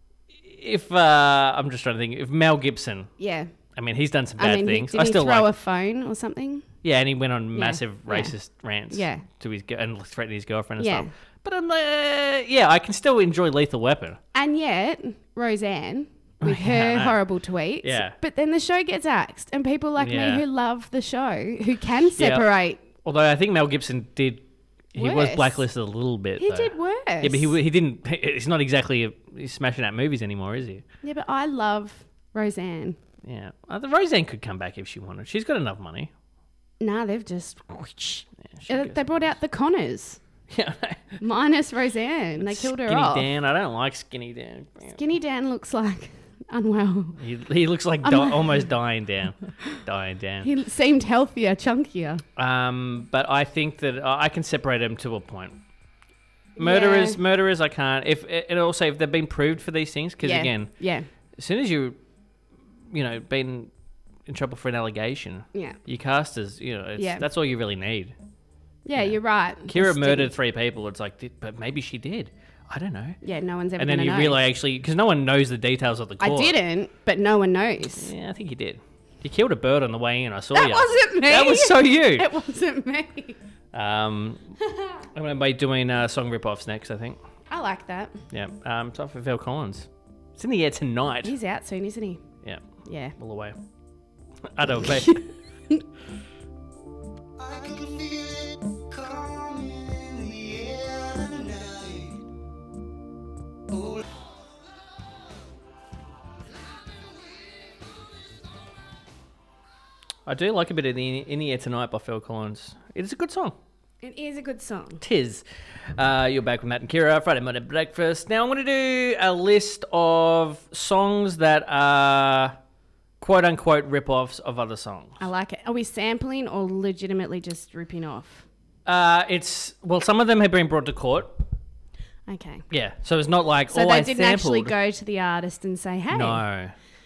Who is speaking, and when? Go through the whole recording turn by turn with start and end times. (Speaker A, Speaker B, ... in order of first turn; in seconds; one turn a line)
Speaker A: 0.3-3.1
Speaker B: 3.2-3.5
Speaker A: 3.8-5.5
Speaker B: 4.4-6.7
Speaker A: 6.8-14.2
Speaker B: 7.5-8.3
Speaker B: 8.9-9.3
Speaker B: 10.8-11.1
Speaker B: 14.3-22.8
Speaker A: 16.4-17.2
Speaker A: 17.8-18.2
Speaker A: 20.0-20.4
Speaker A: 22.2-22.5
Speaker A: 23.0-30.8
Speaker B: 25.0-25.6
Speaker B: 26.4-27.5
Speaker B: 31.0-33.0
Speaker A: 33.2-36.1
Speaker B: 36.8-40.2
Speaker A: 38.5-39.0
Speaker A: 40.5-41.2
Speaker B: 41.2-43.3
Speaker A: 42.4-45.0
Speaker B: 45.0-47.2
Speaker A: 47.2-50.5
Speaker B: 48.0-48.7
Speaker B: 50.4-52.2
Speaker A: 52.4-55.6
Speaker A: 56.6-60.7
Speaker B: 56.6-57.2
Speaker B: 60.2-61.1
Speaker A: 61.4-62.0
Speaker A: 62.9-63.7
Speaker A: 64.3-68.2
Speaker B: 67.0-67.3
Speaker B: 68.8-70.3
Speaker A: 69.0-73.2
Speaker B: 73.2-74.4
Speaker A: 73.8-76.6
Speaker B: 76.2-78.1
Speaker A: 78.0-82.3
Speaker B: 80.5-83.4
Speaker A: 83.7-84.6
Speaker A: 85.1-87.2
Speaker B: 87.5-88.2
Speaker A: 88.3-91.3
Speaker B: 91.2-92.2
Speaker B: 92.8-93.2
Speaker A: 93.2-93.6
Speaker A: 94.5-95.2
Speaker B: 95.0-95.8
Speaker C: 97.4-102.2
Speaker A: 110.3-113.6
Speaker B: 114.0-115.0
Speaker A: 115.0-122.6
Speaker A: 123.2-125.2
Speaker B: 125.2-128.5
Speaker A: 128.9-131.4
Speaker B: 132.3-132.6
Speaker A: 132.7-134.8
Speaker B: 133.7-136.4
Speaker A: 136.1-136.7